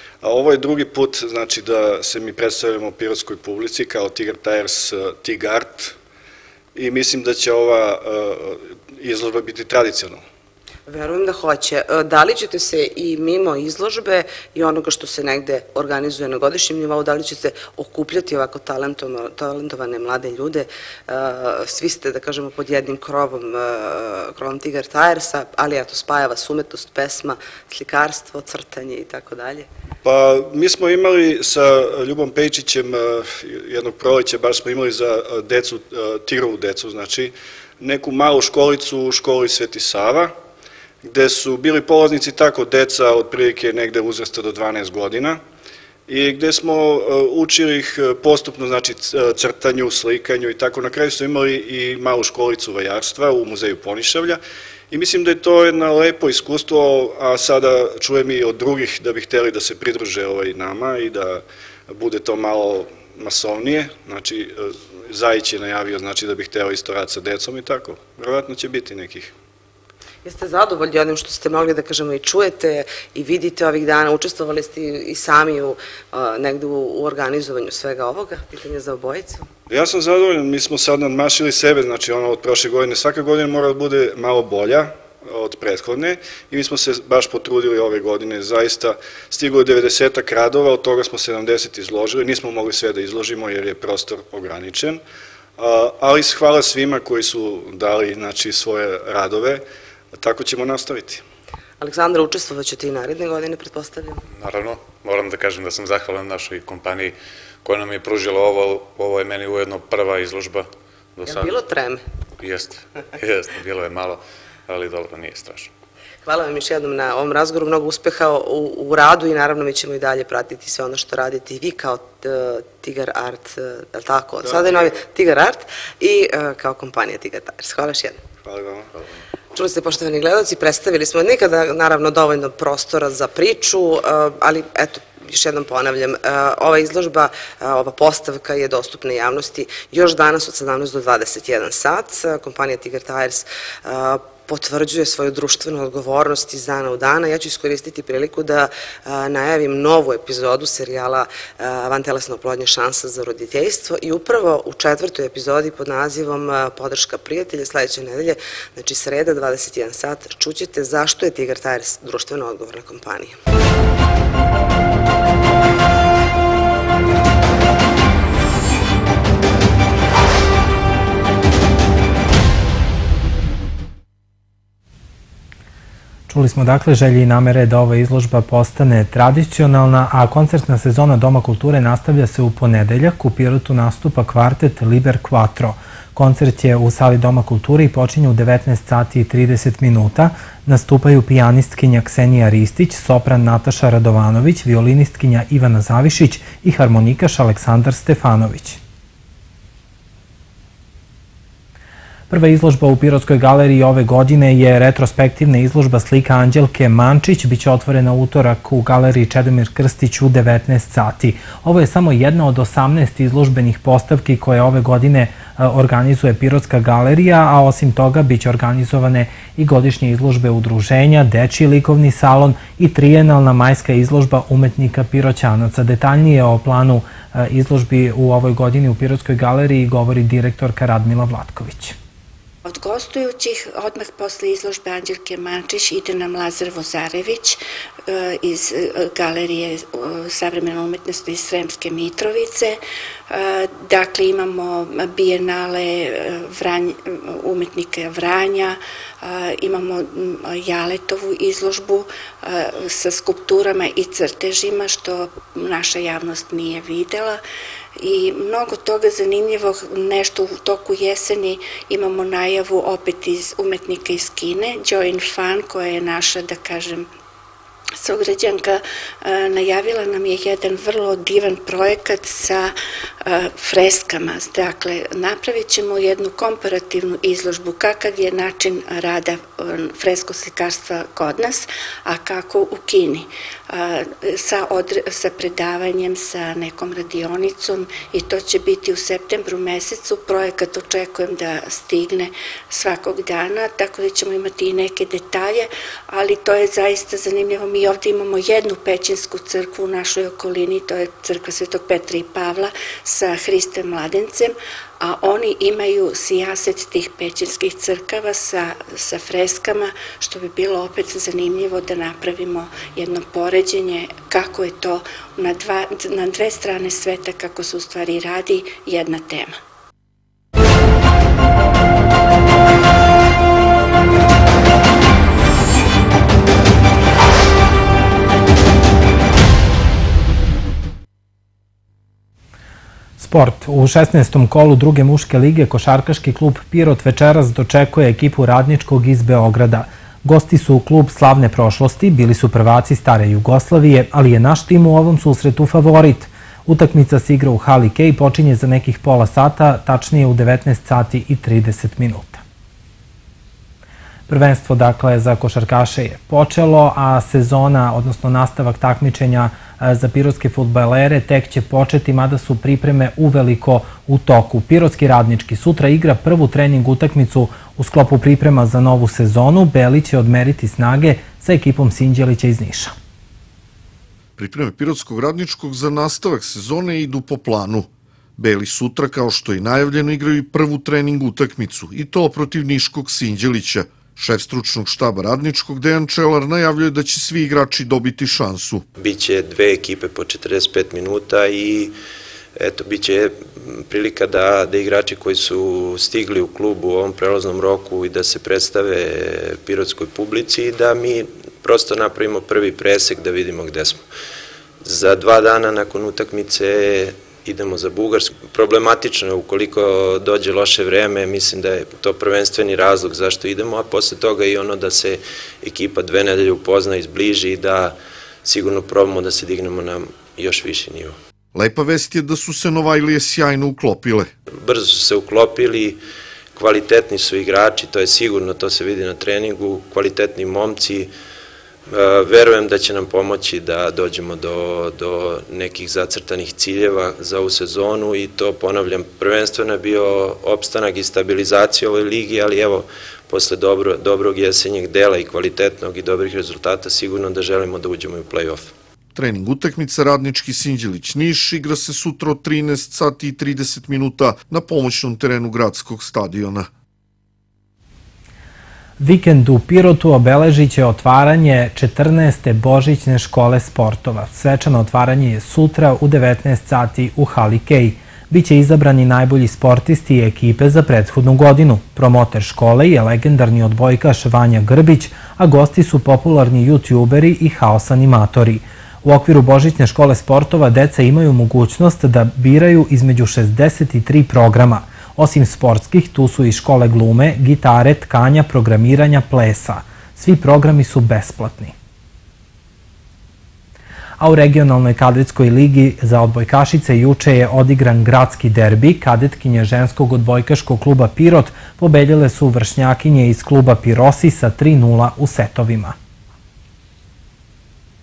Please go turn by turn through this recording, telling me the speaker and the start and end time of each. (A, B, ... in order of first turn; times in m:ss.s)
0:00.2-0:06.0 A
0:06.8-0:10.2 A
0:10.9-0:29.7 B
0:30.0-0:40.3 A
0:41.0-0:45.4 A
0:46.1-1:09.3 A
1:10.2-1:19.5 B
1:19.7-1:35.0 A
1:35.6-1:41.2 A
1:41.8-1:44.2 B
1:44.3-1:51.6 C
1:51.3-1:52.0 B
1:52.4-1:55.7 C
1:56.2-2:08.2 B
2:04.4-2:05.0 A
2:08.4-2:08.9 A
2:09.5-2:43.4 B
2:56.3-3:18.8 D
3:22.3-3:52.0 D
3:52.7-4:17.4 E
4:18.0-4:27.1 E
4:28.0-5:19.6 E
5:33.2-5:52.4 D
5:54.3-6:12.9 D
6:14.4-6:28.8 F
6:29.0-6:32.0 G
6:32.6-6:44.0 G
6:44.8-7:01.2 G
7:01.6-7:04.3 F
7:04.5-7:06.0 G
7:06.5-7:11.1 G
7:11.9-7:28.7 G
7:29.2-7:36.7 F
7:39.0-8:11.7 D
8:14.2-8:26.0 D